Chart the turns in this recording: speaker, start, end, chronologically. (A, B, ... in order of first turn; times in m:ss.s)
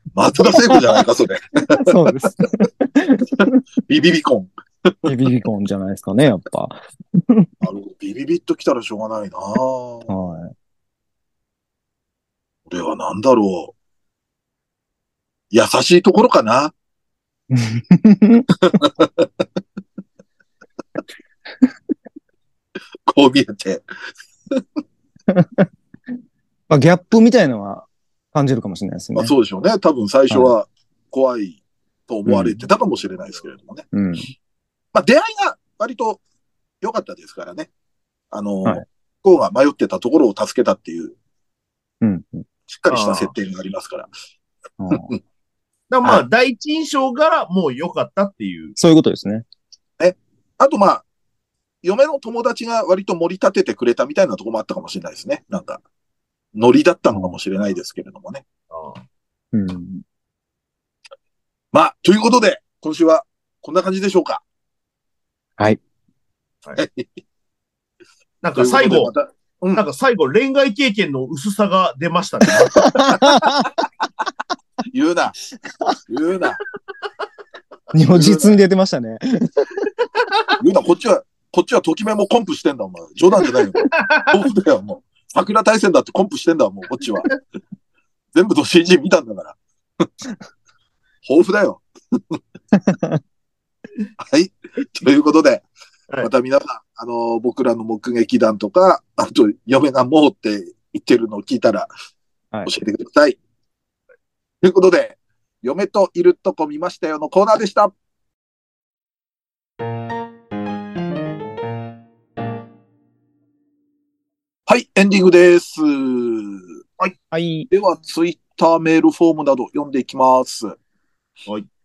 0:00.1-0:02.0 A
0:00.5-0:00.8 B
0:01.7-0:03.6 B
0:03.9-0:05.1 A
0:05.0-0:07.5 B
0:07.6-0:10.1 A
0:10.1-0:10.5 B
0:12.7-0:13.7 A
0:15.5-0:16.7 A
0:17.5-0:18.8 B
0:18.7-0:19.4 A
0:23.1-0:23.8 A
0:25.3-0:25.6 B
0:26.7-0:29.3 B
0:29.1-0:33.8 A
0:30.3-0:30.5 B
0:32.2-0:32.6 B
0:33.9-0:34.3 B
0:34.9-0:36.2 A
0:36.8-0:37.7 A
0:38.3-0:41.2 A
0:42.0-0:42.4 B
0:42.7-0:44.1 A
0:42.9-0:43.3 C
0:44.8-0:45.1 B
0:45.9-0:48.8 C
0:48.8-0:49.4 B
0:50.0-0:51.0 A
0:51.8-0:55.8 A
0:56.5-0:58.4 A
0:58.7-0:59.0 C
0:59.5-1:00.0 B
1:01.7-1:04.4 A
1:06.8-1:07.1 A
1:08.4-1:09.1 C
1:08.6-1:09.8 A
1:09.8-1:13.0 C
1:12.7-1:13.7 B
1:14.9-1:15.3 A
1:16.1-1:16.6 A
1:17.9-1:19.9 B
1:18.1-1:18.6 A
1:20.6-1:27.3 A
1:23.8-1:24.4 C
1:28.3-1:30.1 A
1:31.2-1:32.4 A
1:32.7-1:33.2 B
1:34.2-1:35.6 A
1:36.2-1:41.9 A
1:42.6-1:43.4 A
1:44.6-1:47.9 A
1:54.7-1:56.8 A
1:57.3-1:57.7 B
1:57.7-2:00.8 A